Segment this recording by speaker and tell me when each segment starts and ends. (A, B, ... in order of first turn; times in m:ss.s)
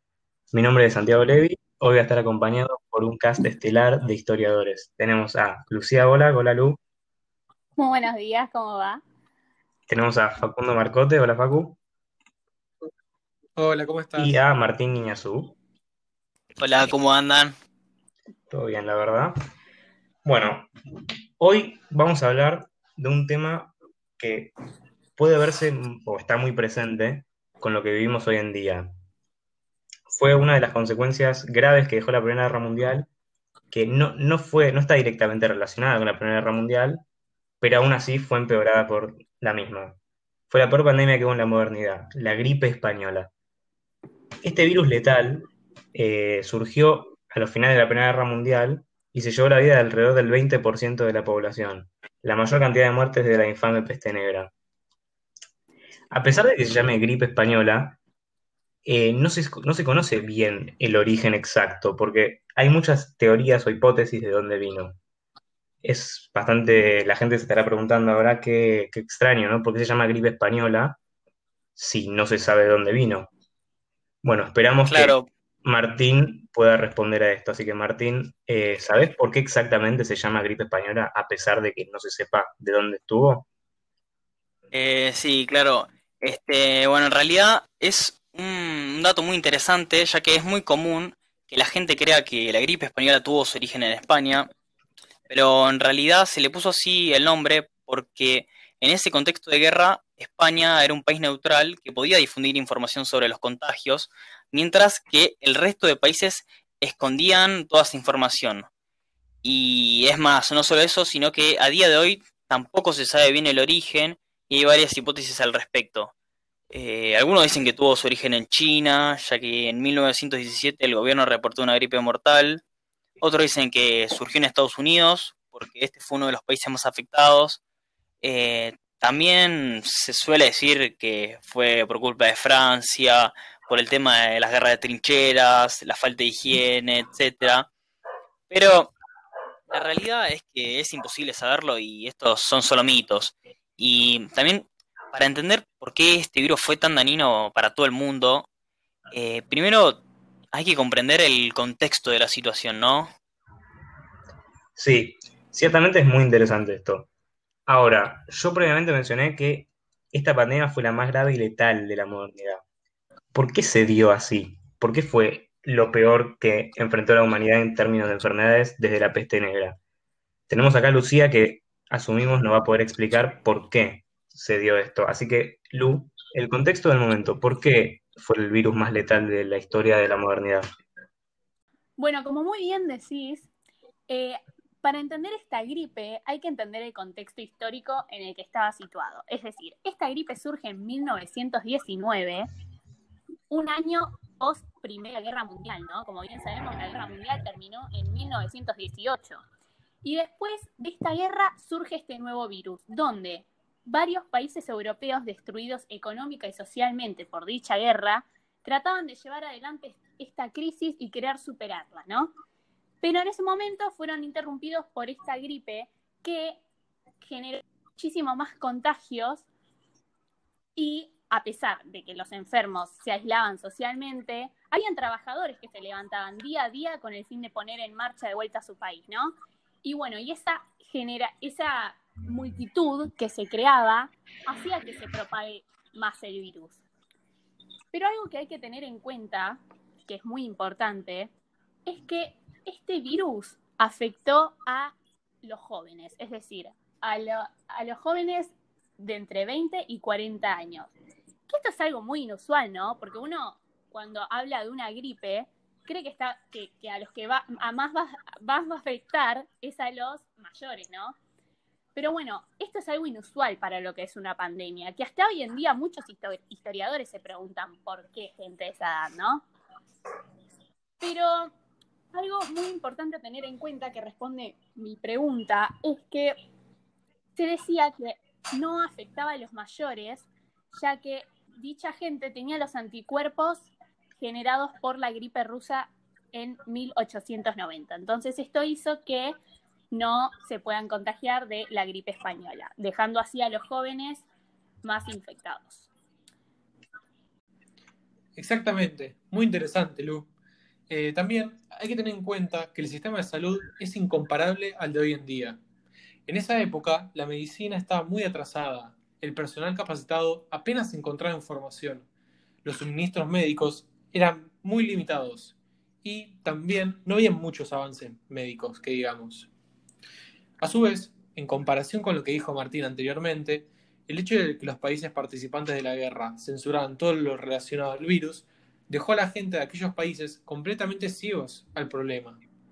0:00.5-0:06.8 A
0:07.8-0:09.0 B
0:09.9-0:11.8 A
0:13.6-0:14.3 C
0:14.2-0:15.6 A
0:16.6-0:17.5 D
0:18.5-0:19.3 A
0:20.2-0:20.7 A
0:21.4-0:24.5 A
0:25.2-0:28.9 A
0:30.1-0:33.1 A
0:33.7-0:37.0 A
0:37.6-0:40.0 A
0:40.5-0:43.3 A
0:44.4-0:54.5 A
0:56.1-0:58.0 A
0:58.8-1:05.0 A
1:05.8-1:11.0 A
1:11.8-1:13.3 A
1:14.2-1:15.1 A
1:14.8-1:15.3 D
1:15.6-1:23.5 A
1:24.7-1:34.5 D
1:35.3-1:48.7 D
1:49.4-1:56.1 D
1:56.7-2:02.6 D
2:03.2-2:07.6 D
2:08.2-2:17.7 D
2:18.5-2:18.9 D
2:19.7-2:28.4 D
2:29.1-2:30.0 D
2:30.5-2:33.1 D
2:34.8-2:37.1 A
2:37.7-2:42.6 A
2:43.3-2:49.8 A
2:50.5-3:00.6 A
3:02.0-3:03.5 B
3:04.1-3:12.5 B
3:13.5-3:19.4 B
3:20.0-3:32.3 B
3:33.0-3:36.6 B
3:37.2-3:39.4 B
3:40.8-3:56.8 B
3:57.9-4:01.3 B
4:01.8-4:10.9 B
4:11.5-4:21.2 B
4:21.9-4:29.4 B
4:31.0-4:31.5 B
4:32.1-4:36.4 B
4:37.3-4:49.4 B
4:49.9-4:54.3 B
4:54.8-4:55.9 B
4:58.4-5:00.3 C
5:00.9-5:05.6 C
5:06.3-5:12.1 C
5:12.6-5:19.5 C
5:20.6-5:32.4 C